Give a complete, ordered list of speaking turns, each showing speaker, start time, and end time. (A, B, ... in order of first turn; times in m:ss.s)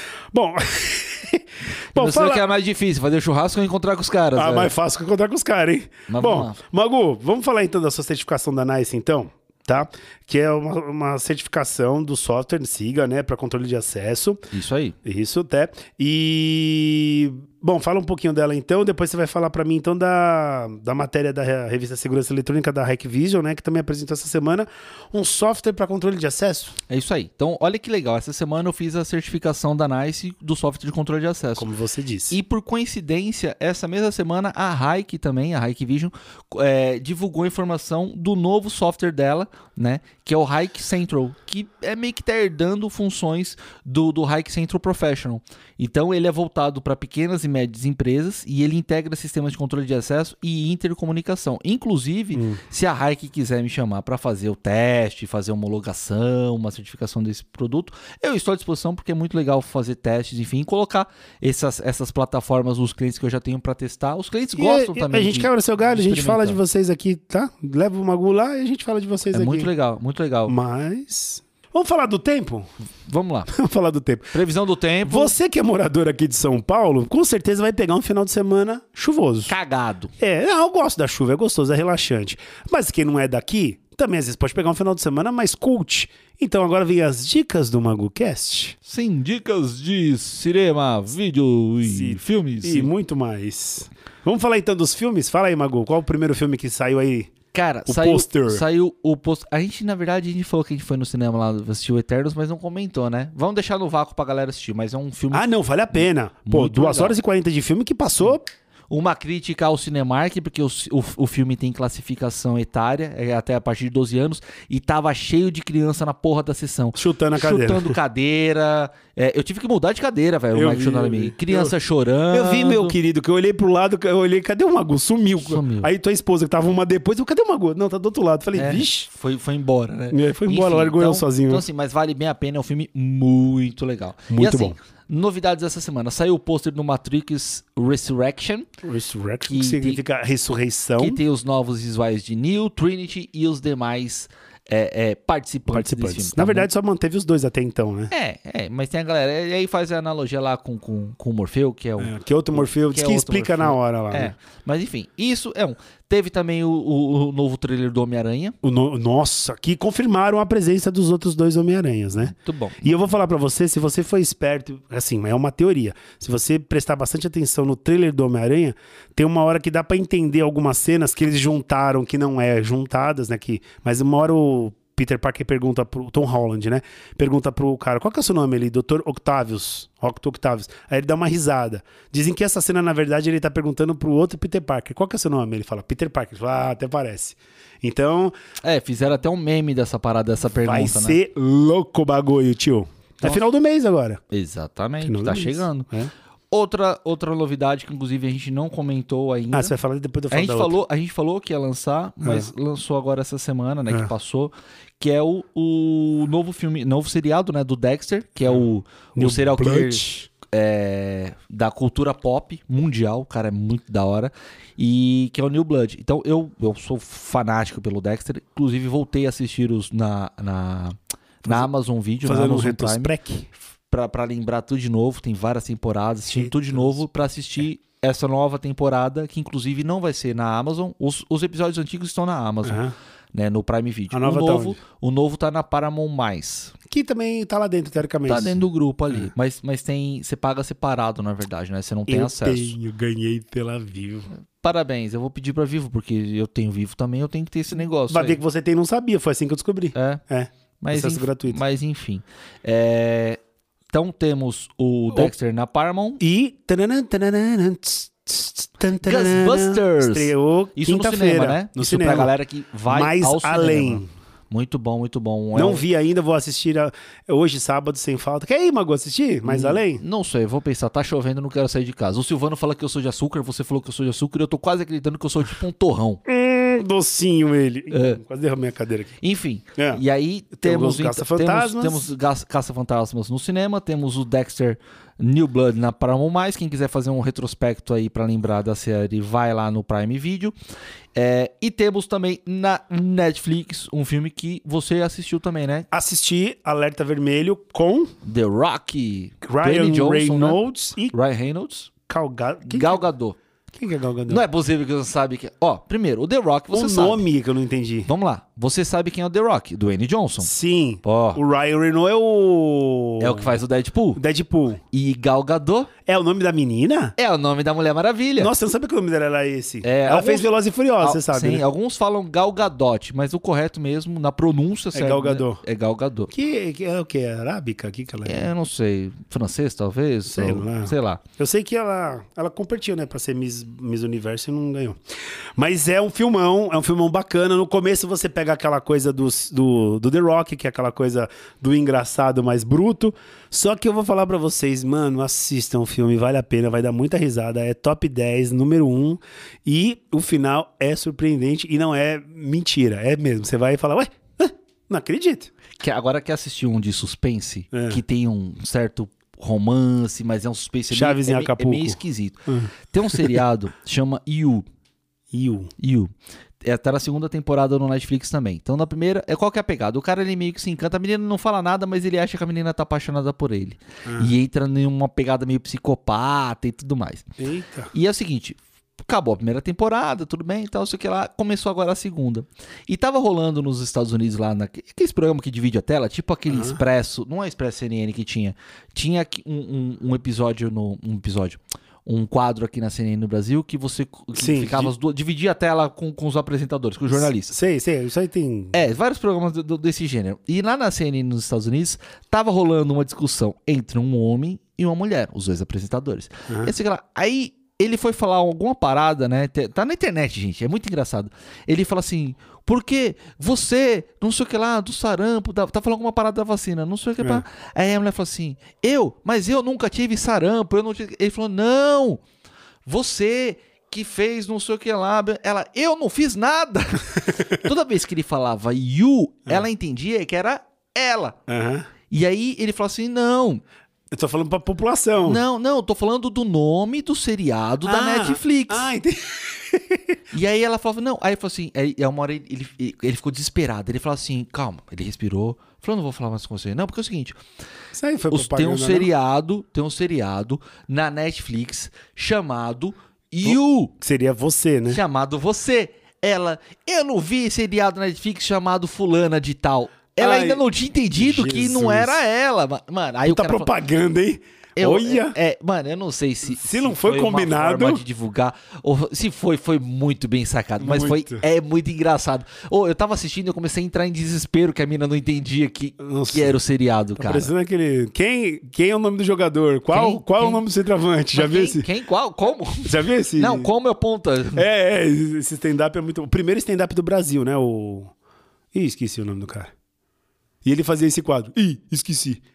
0:00.3-0:02.4 A
0:01.9-0:04.7 B
0:04.4-0:14.4 A
0:06.1-0:06.6 B
0:14.5-0:15.0 B
0:15.0-0:26.8 A
0:26.9-0:31.7 B
0:31.6-0:32.4 A
0:32.3-1:06.6 B
0:52.4-0:52.6 A
1:04.6-1:09.7 A
1:09.3-1:10.6 B
1:10.5-1:12.7 A
1:13.0-1:13.5 B
1:13.5-1:14.4 A
1:14.3-1:15.3 B
1:15.1-1:19.5 A
1:19.5-1:20.1 B
1:20.2-1:28.8 A
1:28.9-1:32.9 B
1:31.8-1:37.3 A
1:37.5-1:47.2 B
1:37.9-1:38.6 A
1:45.3-1:48.5 A
1:48.9-2:03.0 B
1:57.0-1:58.0 A
2:00.5-2:01.7 A
2:02.3-2:09.1 A
2:05.4-2:05.9 B
2:08.6-2:18.7 B
2:10.1-2:11.6 A
2:14.3-2:14.8 A
2:18.8-2:21.2 A
2:19.4-2:20.0 B
2:21.0-2:26.7 B
2:25.7-2:28.1 A
2:28.1-2:38.6 B
2:32.0-2:34.3 A
2:38.6-3:08.3 A
2:42.2-2:42.8 B
3:08.6-3:11.2 B
3:10.6-3:14.2 A
3:14.3-3:15.9 B
3:15.0-3:16.1 A
3:16.5-3:19.7 B
3:19.5-3:20.8 A
3:20.3-3:43.1 B
3:22.2-3:22.5 A
3:29.2-3:30.3 A
3:42.2-3:43.5 A
3:43.9-3:52.8 B
3:46.3-3:47.0 A
3:52.6-3:52.9 A
3:53.3-3:56.8 B
3:54.1-3:54.8 A
3:56.9-3:59.3 A
3:58.3-4:02.8 B
4:02.1-4:04.3 A
4:04.6-4:08.4 B
4:08.1-4:11.6 A
4:10.0-4:10.2 B
4:10.8-4:13.4 B
4:13.9-4:16.2 B
4:16.2-4:22.3 A
4:19.0-4:25.8 B
4:22.9-4:24.1 A
4:25.6-4:30.0 A
4:29.4-4:36.2 B
4:36.3-4:39.2 A
4:37.9-4:38.2 B
4:39.2-4:50.5 B
4:40.6-4:42.0 A
4:51.2-4:55.9 B
4:55.9-4:58.1 A
4:58.2-5:01.9 B
4:59.4-5:01.2 A
5:02.1-5:03.0 A
5:02.7-5:03.4 B
5:03.7-5:04.4 A
5:04.3-5:07.2 B
5:06.7-5:08.1 A
5:08.1-5:10.5 B
5:10.4-5:13.6 A
5:11.0-5:11.4 B
5:13.2-5:14.2 B
5:14.2-5:14.8 A
5:14.9-5:15.9 B
5:16.1-5:17.1 A
5:17.2-5:18.5 B
5:18.4-5:21.6 A
5:19.8-5:26.3 B
5:24.9-5:25.6 A
5:26.3-5:28.5 A
5:28.3-5:31.2 B
5:30.3-5:35.0 A
5:35.6-5:55.5 A
5:55.8-6:04.7 B
5:57.7-5:58.0 A
6:00.9-6:03.4 A
6:05.3-6:05.7 A
6:05.8-6:06.1 B
6:06.6-6:17.3 B
6:14.1-6:14.3 A
6:17.4-6:17.9 A
6:17.9-6:37.5 B
6:26.5-6:26.8 A
6:34.4-6:34.9 A
6:37.1-6:38.8 A
6:38.7-7:02.2 B
6:46.5-6:46.7 A
7:02.9-7:11.4 B
7:07.3-7:07.5 A
7:11.5-7:11.9 A
7:12.1-7:13.6 B
7:14.1-7:15.4 A
7:15.2-7:18.9 B
7:17.9-7:20.2 A
7:20.3-7:27.4 B
7:27.9-7:29.1 A
7:28.3-7:33.9 B
7:33.4-7:35.0 A
7:34.9-7:43.7 B
7:40.2-7:42.2 A
7:43.3-7:45.4 A
7:44.8-7:57.5 B
7:46.5-7:48.0 A
7:50.8-7:51.4 A
7:56.0-7:56.6 A
7:57.2-8:01.9 A
7:59.9-8:00.6 B
8:01.3-8:04.6 B
8:02.8-8:03.7 A
8:04.6-8:08.1 A
8:08.7-8:09.7 A
8:10.6-8:12.4 A